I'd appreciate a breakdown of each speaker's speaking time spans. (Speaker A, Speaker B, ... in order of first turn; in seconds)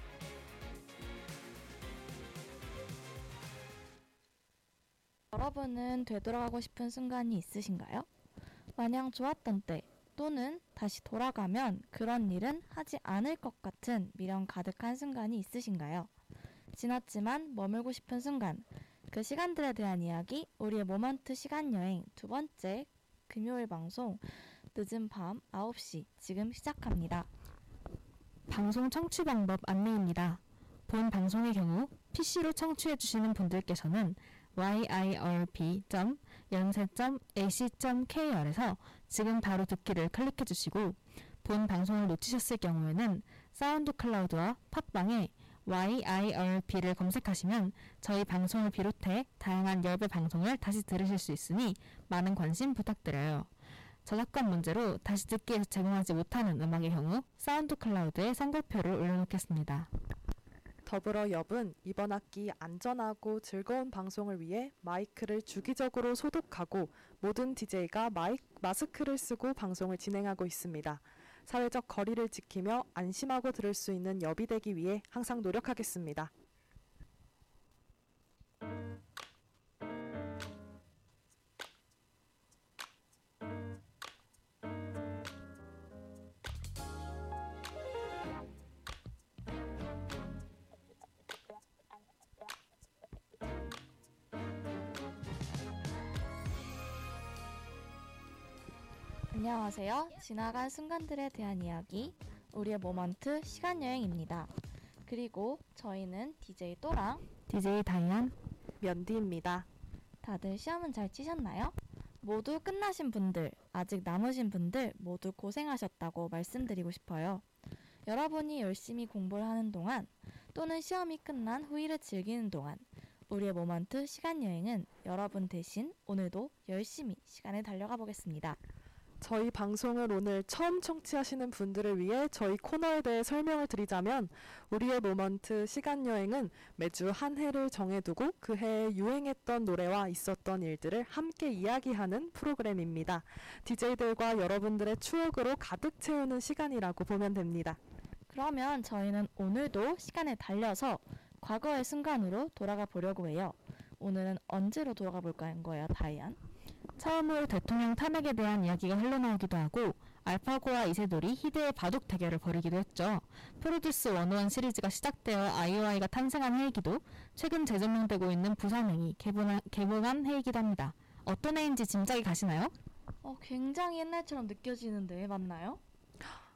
Speaker A: 5.3-8.1, 8.8-16.1, 16.7-27.3, 99.3-104.5, 105.1-107.3, 110.2-117.4, 118.1-128.6, 148.3-156.4, 173.2-175.8
Speaker B: 28.5-53.5, 54.1-59.9, 107.5-108.3, 157.0-172.7
Speaker C: 60.9-76.3, 108.8-109.7, 129.2-147.8